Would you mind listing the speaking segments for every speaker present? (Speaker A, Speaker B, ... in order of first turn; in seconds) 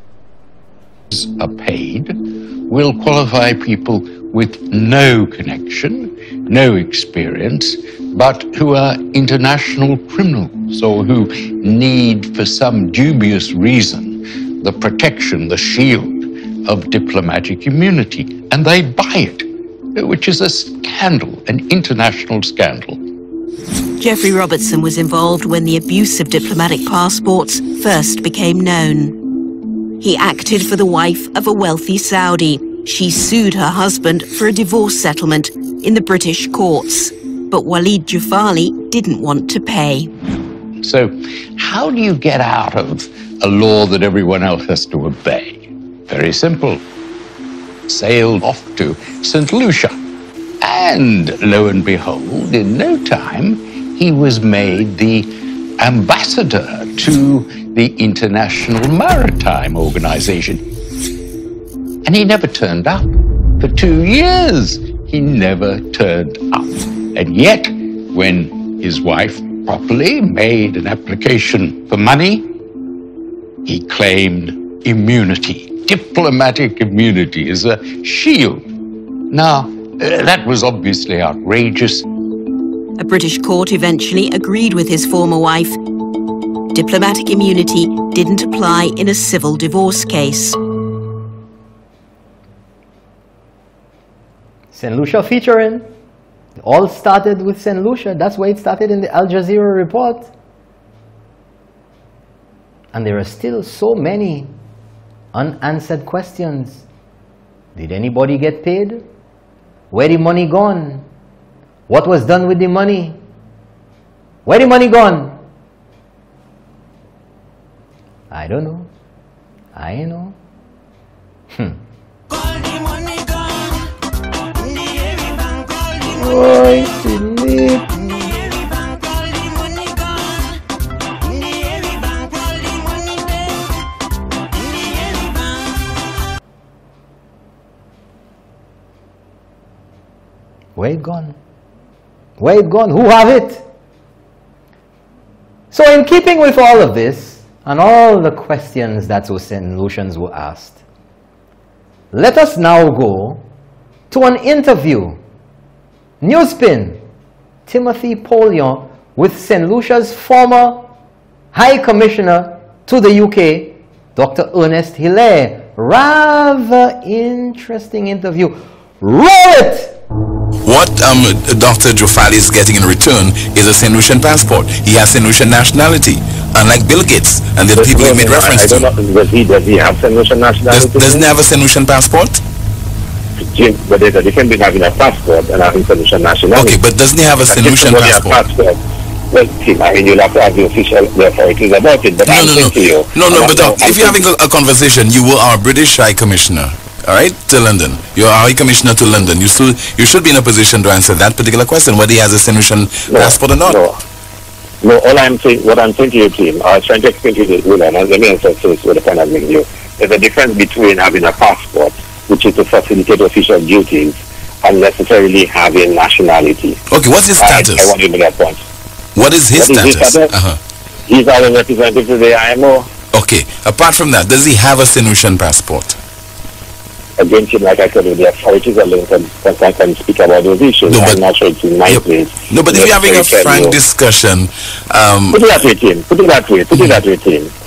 Speaker A: 1.1-23.0, 40.8-46.8, 47.9-50.0, 50.6-60.6, 62.0-72.5, 73.6-78.7, 79.3-82.1
Speaker B: 24.0-40.1, 83.0-90.6
Speaker C: 94.7-95.9, 96.6-100.3, 102.9-104.5, 105.3-106.8, 107.7-109.0, 109.9-111.0, 111.9-113.2, 114.5-115.3, 118.3-118.9, 119.7-120.3, 121.5-121.8, 126.0-128.4, 140.8-141.3, 142.4-143.6, 145.7-150.8, 152.1-153.4, 154.1-155.2, 156.2-157.0, 157.7-160.9, 161.5-170.0
Speaker D: 170.6-178.9, 180.7-182.4, 186.5-188.4, 192.2-203.8, 216.9-217.9, 219.2-220.6, 223.1-226.0, 230.9-231.2, 231.9-235.4
Speaker E: 177.7-181.3, 183.5-188.8, 189.3-194.2, 203.1-204.0, 204.8-216.8, 217.4-218.6, 219.5-220.3, 221.1-222.9, 227.2-233.8, 235.3-237.5